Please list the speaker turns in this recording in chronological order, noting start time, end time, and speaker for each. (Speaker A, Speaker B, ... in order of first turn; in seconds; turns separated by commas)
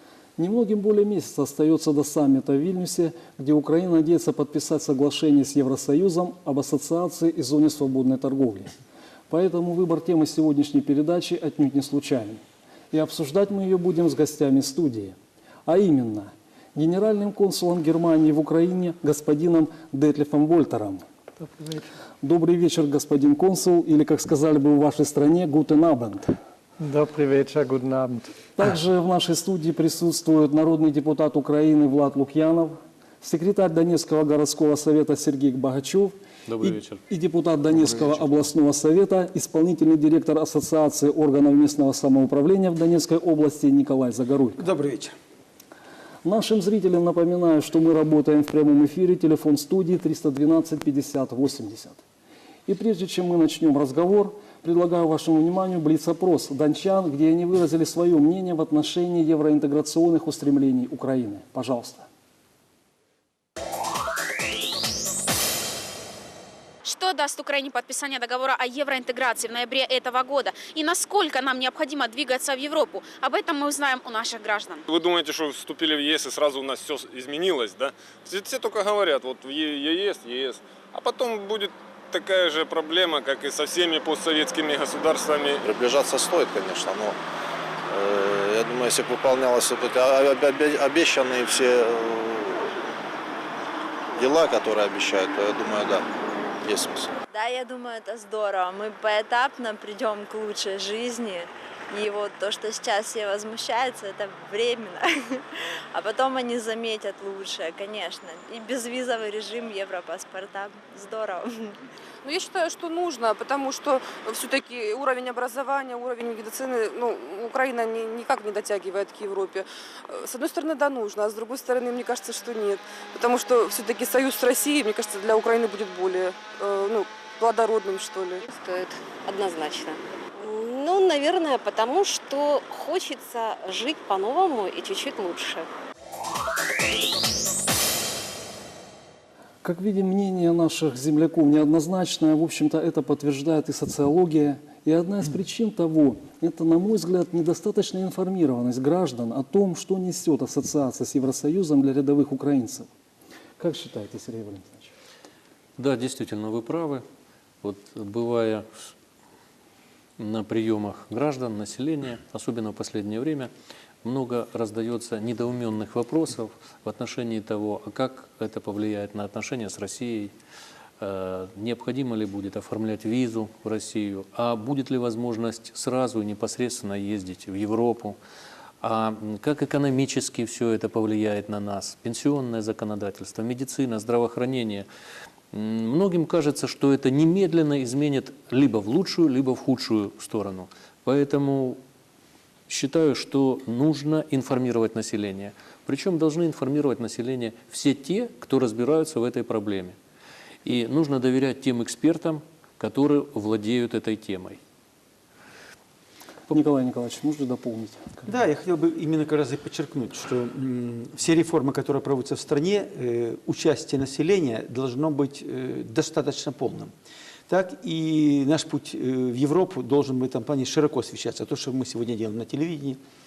Speaker A: 0.4-8.7, Speaker A: 9.3-21.0, Speaker B: 21.4-21.9, Speaker A: 22.2-26.3, Speaker B: 26.8-28.3, Speaker A: 28.6-44.7, Speaker C: 36.5-37.0, Speaker D: 44.6-45.1, Speaker A: 46.2-52.0, Speaker A: 52.7-62.0, Speaker E: 66.8-74.8, Speaker F: 74.9-85.6, Speaker G: 85.8-87.1, Speaker G: 87.9-92.2, Speaker G: 94.2-96.0, Speaker G: 96.7-97.1, Speaker H: 97.3-111.8, Speaker I: 112.2-128.4, Speaker J: 128.4-135.7, Speaker A: 139.6-152.9, Speaker A: 153.6-154.9, Speaker C: 155.8-157.0, Speaker C: 157.6-158.7, Speaker C: 160.2-163.5, Speaker C: 164.0-170.3, Speaker C: 171.0-178.2, Speaker C: 178.8-184.9, Speaker C: 185.5-191.8, Speaker C: 192.7-200.0, Speaker C: 200.7-204.6, Speaker A: 206.5-208.4, Speaker D: 208.3-216.9, Speaker D: 217.5-223.0